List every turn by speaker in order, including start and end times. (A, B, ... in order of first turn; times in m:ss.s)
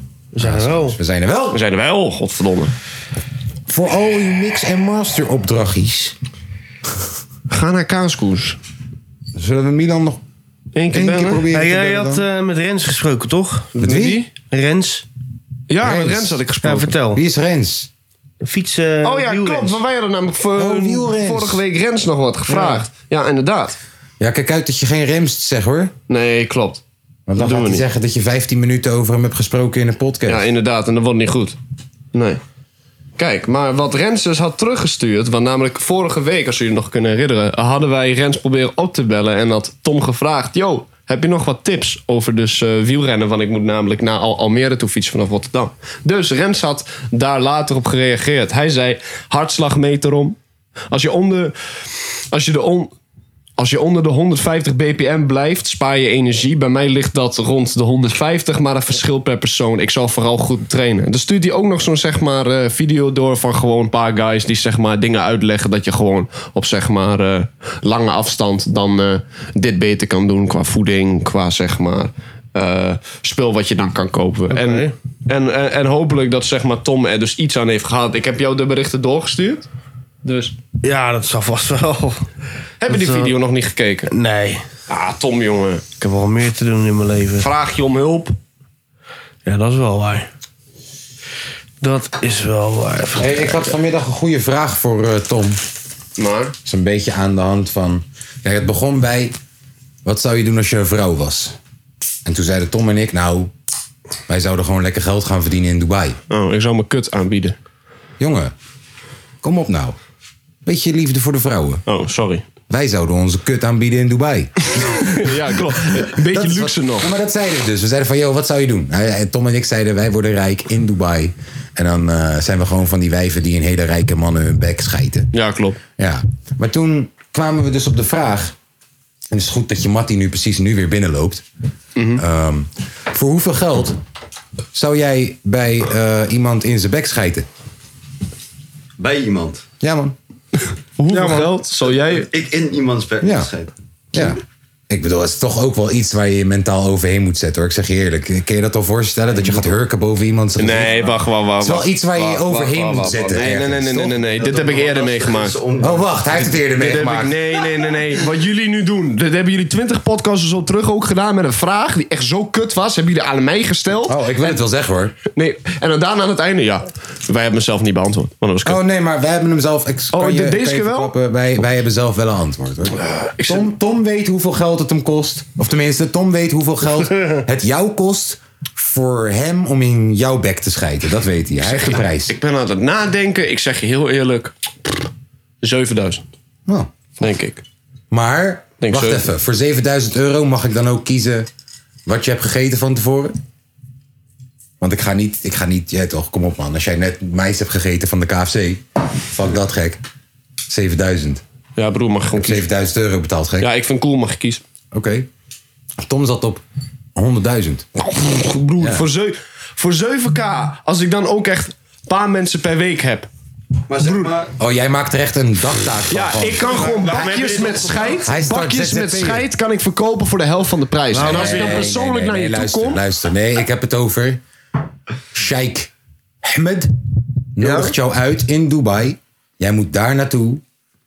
0:00.3-0:01.0 A
0:00.4-0:01.6 B
0:01.5-0:02.7 C
0:03.7-0:06.2 B
0:07.5-0:08.6 C
0:09.3-0:10.2 B
0:10.7-0:11.4 C
0:10.9-0:12.2 B
0:11.5-0:13.7 A
0:13.8-0:14.3 C
0:13.8-0:14.2 B
0:14.5-0:15.0 A
0:15.7-0:16.9 C
0:15.8-0:16.4 B
0:16.6-0:17.2 A
0:17.1-0:17.9 B
0:18.4-0:19.8 A
0:19.0-0:23.8 C
0:20.6-0:21.6 B
0:22.5-0:22.8 B
0:24.2-0:25.9 B
0:26.1-0:26.8 C
0:27.3-0:30.5 B
0:27.4-0:27.8 C
0:30.3-0:31.6 C
0:32.1-0:32.4 C
0:33.2-0:50.4 C
0:50.9-0:51.5 C
0:52.3-0:52.9 C
0:53.6-1:19.7 C
1:14.5-1:14.9 A
1:20.2-1:20.5 C
1:20.8-1:22.2 A
1:22.8-1:24.1 C
1:22.9-1:23.3 A
1:24.1-1:24.6 A
1:24.9-1:25.8 C
1:26.0-1:27.5 A
1:27.4-1:28.4 C
1:29.4-1:30.3 A
1:31.8-1:33.7 A
1:33.2-1:35.6 B
1:36.2-1:36.5 C
1:36.6-1:39.4 B
1:40.0-1:41.6 B
1:42.2-1:43.5 B
1:44.3-1:46.2 B
1:46.3-1:47.6 C
1:48.2-1:48.5 B
1:49.4-1:50.0 B
1:50.6-1:51.8 B
1:51.9-1:52.4 C
1:52.7-2:05.3 B
1:54.7-1:57.1 C
2:05.3-2:05.8 C
2:06.0-2:08.5 B
2:09.3-2:11.4 B
2:12.0-2:12.2 C
2:12.2-2:14.0 B
2:14.7-2:17.5 B
2:19.0-2:19.6 D
2:19.8-2:20.2 B
2:21.0-2:22.3 C
2:21.2-2:24.3 D
2:23.2-2:23.5 B
2:24.1-2:34.2 B
2:29.3-2:29.7 D
2:30.6-2:35.6 C
2:34.3-2:36.6 D
2:35.8-2:37.4 B
2:36.8-2:44.5 C
2:44.0-2:45.2 B
2:45.3-2:48.8 C
2:48.6-3:02.3 B
2:50.1-2:51.1 C
2:53.0-2:53.7 C
3:01.6-3:05.1 C
3:05.6-3:06.2 C
3:06.7-3:06.9 B
3:07.2-3:07.6 C
3:08.1-3:11.5 B
3:08.8-3:09.3 C
3:12.0-3:13.3 B
3:14.8-3:20.0 B
3:20.7-3:21.4 B
3:21.8-3:22.7 C
3:22.3-3:23.7 B
3:23.6-3:24.6 C
3:24.9-3:25.3 B
3:26.0-3:26.6 B
3:27.1-3:27.9 B
3:28.0-3:33.3 C
3:28.8-3:29.0 B
3:33.9-3:34.5 D
3:34.0-3:34.3 C
3:34.6-3:37.2 B
3:36.1-3:43.0 C
3:36.7-3:38.2 A
3:38.2-3:39.5 B
3:41.1-3:44.4 B
3:41.1-3:41.7 A
3:45.3-3:45.9 B
3:46.4-3:46.9 B
3:47.6-3:50.6 B
3:47.6-3:47.9 C